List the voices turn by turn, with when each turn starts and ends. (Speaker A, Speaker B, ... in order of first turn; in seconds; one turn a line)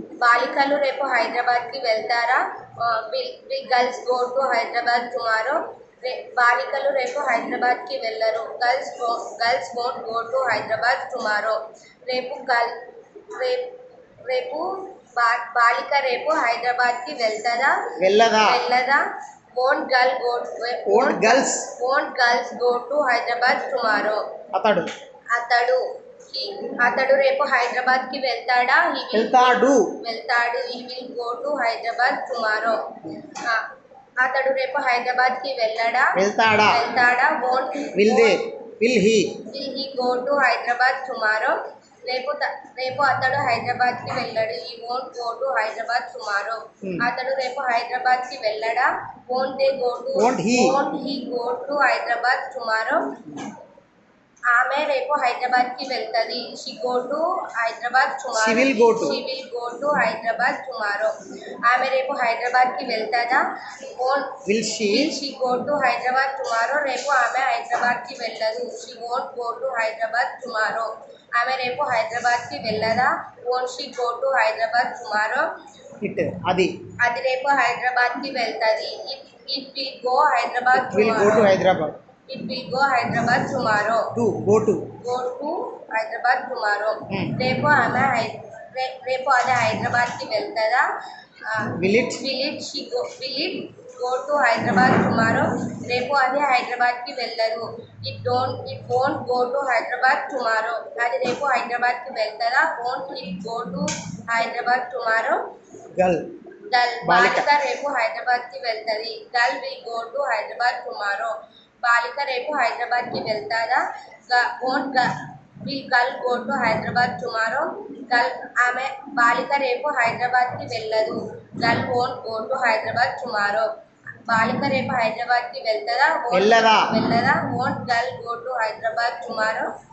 Speaker A: 0.2-12.7
Speaker A: 13.3-13.7
Speaker A: 14.2-17.8
Speaker B: 18.0-18.6
Speaker A: 18.4-24.2
Speaker B: 20.9-21.7
Speaker B: 24.5-24.9
Speaker A: 25.3-33.7
Speaker B: 29.1-29.9
Speaker A: 34.2-36.2
Speaker B: 36.2-36.8
Speaker A: 36.7-38.4
Speaker B: 37.9-39.4
Speaker A: 39.5-53.1
Speaker B: 50.2-50.8
Speaker A: 54.5-64.4
Speaker B: 58.4-59.2
Speaker B: 64.5-65.1
Speaker A: 64.9-75.5
Speaker B: 76.0-76.7
Speaker A: 77.0-81.5
Speaker B: 80.7-82.0
Speaker A: 82.3-84.1
Speaker B: 84.2-84.9
Speaker A: 85.0-90.9
Speaker B: 87.1-87.3
Speaker A: 91.4-105.4
Speaker B: 91.8-92.2
Speaker B: 106.0-106.3
Speaker A: 106.7-123.7
Speaker B: 107.0-107.5
Speaker A: 124.2-129.7
Speaker B: 126.3-127.0